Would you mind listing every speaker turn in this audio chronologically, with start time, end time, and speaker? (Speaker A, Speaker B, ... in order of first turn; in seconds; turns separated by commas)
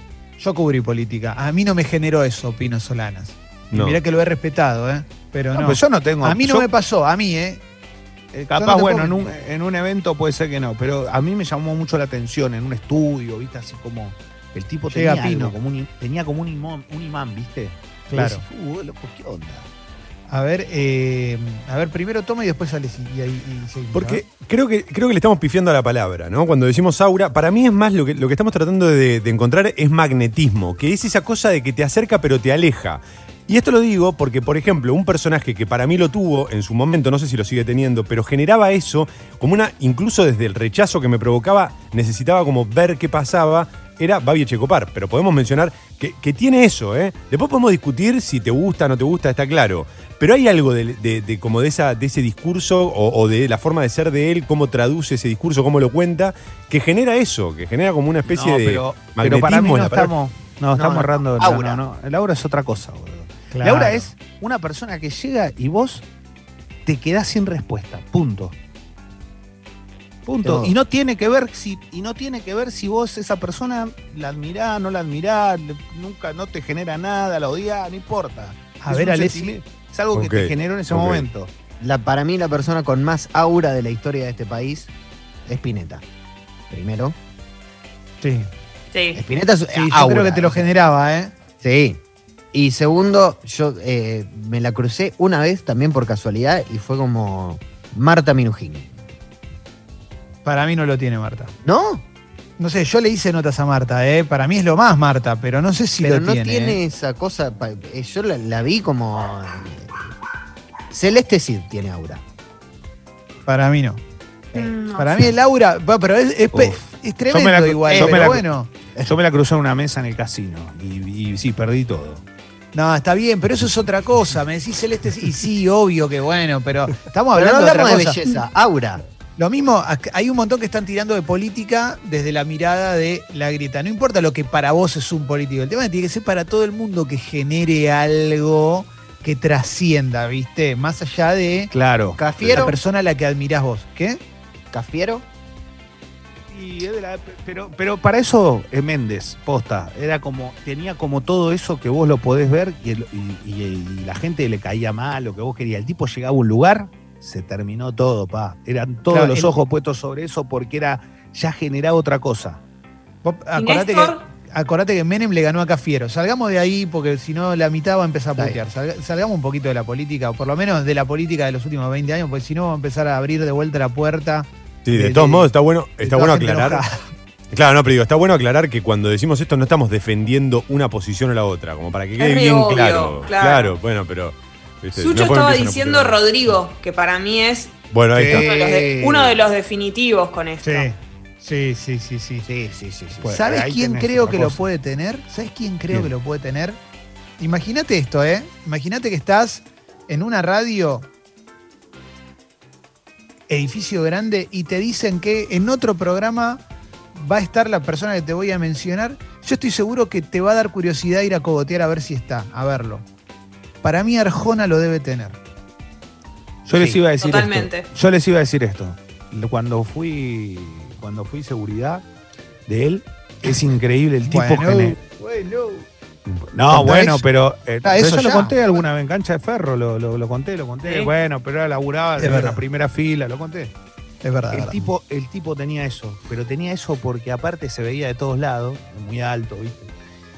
Speaker A: 0.4-7.6, Speaker B: 3.7-4.0, Speaker C: 5.5-6.7, Speaker C: 8.3-19.7, Speaker A: 8.5-9.3, Speaker A: 14.9-15.6, Speaker A: 18.1-18.4, Speaker A: 20.3-24.2, Speaker B: 23.9-60.1, Speaker C: 58.3-66.0, Speaker D: 60.7-61.8, Speaker A: 63.5-64.1, Speaker C: 66.8-68.5, Speaker C: 70.2-81.5, Speaker D: 70.4-70.7, Speaker A: 78.8-79.6, Speaker B: 80.1-81.2, Speaker D: 81.8-84.9, Speaker D: 85.5-86.0, Speaker D: 86.7-87.2, Speaker A: 88.2-88.5, Speaker E: 88.9-89.2, Speaker D: 89.1-90.7, Speaker A: 89.7-91.3, Speaker D: 91.6-92.0, Speaker D: 92.5-98.9, Speaker A: 100.4-101.5, Speaker D: 101.6-102.0, Speaker A: 102.6-106.8, Speaker D: 106.0-110.0, Speaker D: 110.9-112.2, Speaker A: 113.5-114.0, Speaker E: 114.5-115.3, Speaker A: 114.5-118.7, Speaker C: 116.5-118.4, Speaker D: 117.9-118.4, Speaker C: 119.0-122.2, Speaker A: 122.7-128.2, Speaker D: 127.3-129.0, Speaker A: 129.4-141.7, Speaker C: 141.7-142.7, Speaker D: 142.2-142.7, Speaker A: 142.5-144.2, Speaker D: 144.7-145.2, Speaker C: 146.5-162.6, Speaker A: 159.1-159.6, Speaker A: 163.2-177.0, Speaker E: 163.6-164.2, Speaker B: 174.8-176.8, Speaker B: 177.5-186.2, Speaker E: 182.2-183.8, Speaker E: 184.9-190.9, Speaker B: 187.9-188.5, Speaker C: 188.2-188.5, Speaker D: 188.3-189.4, Speaker A: 190.6-192.5, Speaker D: 192.5-193.3, Speaker C: 193.2-194.6, Speaker A: 193.2-196.8, Speaker A: 197.4-201.1, Speaker A: 203.5-206.6, Speaker A: 207.1-213.0, Speaker A: 213.8-215.4, Speaker C: 216.6-222.0, Speaker E: 216.8-217.9, Speaker C: 222.7-224.9, Speaker A: 224.2-225.9, Speaker C: 226.5-233.7, Speaker A: 226.7-227.2, Speaker A: 227.8-228.8, Speaker E: 230.8-231.1, Speaker A: 232.2-232.6, Speaker A: 234.2-234.9, Speaker C: 234.5-239.9